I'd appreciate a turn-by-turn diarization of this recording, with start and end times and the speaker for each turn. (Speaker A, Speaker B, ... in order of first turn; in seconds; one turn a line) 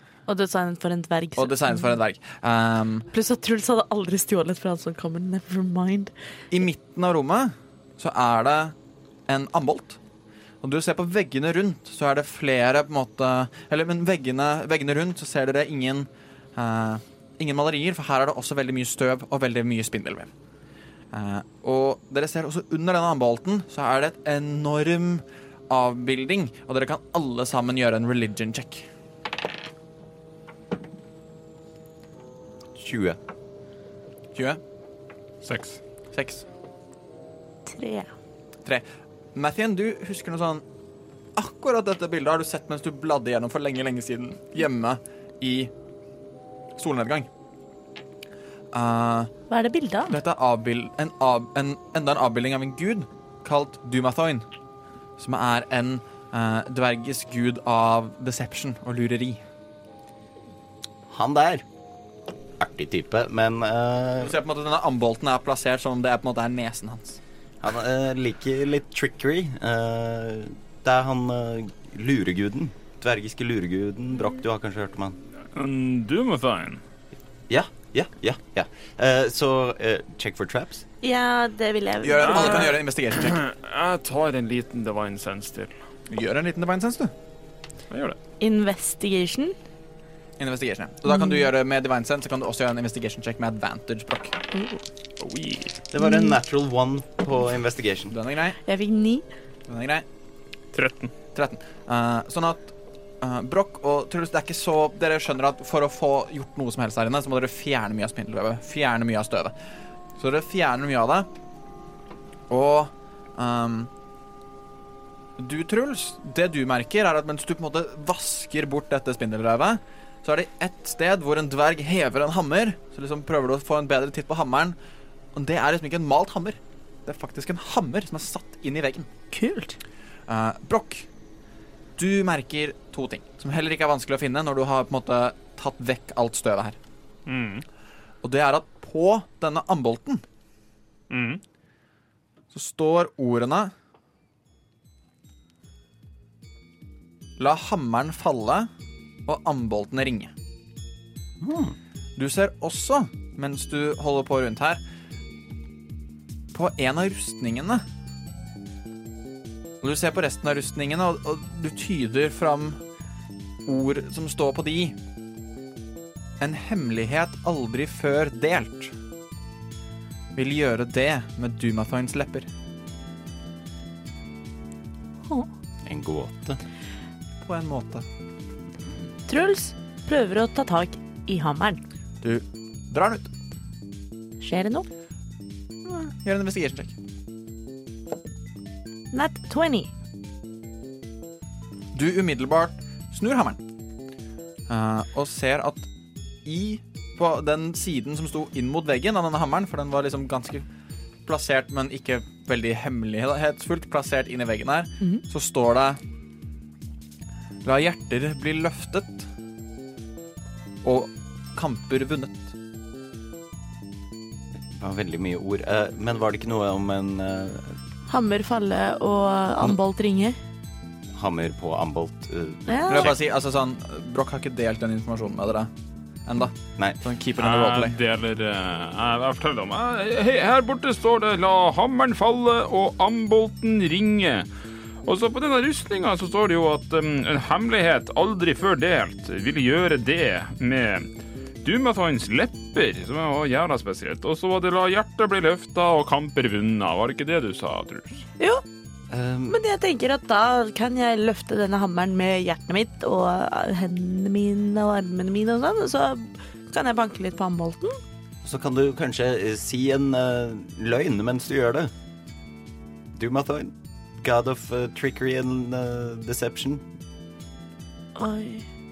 Speaker A: 0.3-1.9
Speaker B: 1.4-3.1
Speaker A: 3.1-6.1
Speaker B: 6.5-8.7
Speaker B: 9.3-10.0
Speaker B: 10.6-20.3
Speaker B: 21.1-28.9
Speaker C: 32.8-33.2
Speaker B: 34.3-34.6
Speaker D: 35.4-35.8
Speaker B: 36.1-36.4
Speaker A: 37.6-38.1
Speaker B: 38.6-40.6
Speaker B: 41.4-45.7
Speaker B: 46.8-47.3
Speaker B: 48.7-49.3
Speaker A: 49.5-50.1
Speaker B: 50.1-54.5
Speaker B: 55.2-59.4
Speaker C: 61.1-61.6
Speaker C: 62.6-64.3
Speaker B: 64.2-67.2
Speaker C: 67.6-75.2
Speaker D: 75.5-76.8
Speaker C: 77.5-80.8
Speaker A: 81.0-82.8
Speaker B: 82.0-83.4
Speaker D: 82.2-85.7
Speaker B: 86.1-87.1
Speaker D: 87.9-88.2
Speaker A: 88.4-89.5
Speaker B: 90.4-94.4
Speaker A: 91.1-91.4
Speaker A: 94.5-94.8
Speaker D: 95.2-95.8
Speaker C: 95.9-98.1
Speaker A: 96.0-96.3
Speaker B: 98.1-98.6
Speaker A: 98.6-99.2
Speaker B: 99.7-100.0
Speaker D: 100.7-101.1
Speaker B: 101.3-109.5
Speaker B: 110.2-111.3
Speaker B: 112.5-113.9
Speaker B: 115.4-124.8
Speaker B: 125.3-129.1
Speaker A: 129.3-129.8
Speaker B: 130.3-131.1
Speaker B: 132.0-136.8
Speaker D: 137.2-137.6
Speaker B: 138.2-140.2
Speaker D: 141.1-141.4
Speaker B: 142.5-143.7
Speaker B: 147.4-148.7
Speaker B: 149.2-150.3
Speaker C: 151.4-151.8
Speaker B: 152.2-154.8
Speaker B: 156.5-157.8
Speaker B: 159.8-162.8
Speaker B: 163.7-164.9
Speaker B: 166.4-168.9
Speaker B: 170.3-172.5
Speaker C: 175.8-176.6
Speaker B: 177.4-178.0
Speaker A: 179.3-181.8
Speaker B: 182.2-183.3
Speaker A: 184.4-184.9
Speaker B: 185.8-186.9
Speaker A: 189.1-189.9
Speaker B: 191.9-193.6
Speaker B: 194.7-195.9
Speaker B: 196.4-200.7
Speaker B: 201.2-206.0
Speaker B: 207.6-209.3
Speaker B: 210.8-212.5
Speaker C: 214.7-217.8
Speaker A: 218.1-220.4
Speaker C: 221.1-223.1
Speaker A: 222.7-223.1
Speaker B: 222.9-225.7
Speaker B: 226.2-227.9
Speaker D: 227.4-234.5
Speaker D: 235.0-241.1
Speaker D: 241.6-248.2
Speaker A: 248.4-248.6
Speaker C: 249.1-249.6
Speaker A: 249.5-258.0
Speaker C: 258.4-261.9
Speaker C: 263.1-266.9
Speaker A: 268.1-268.6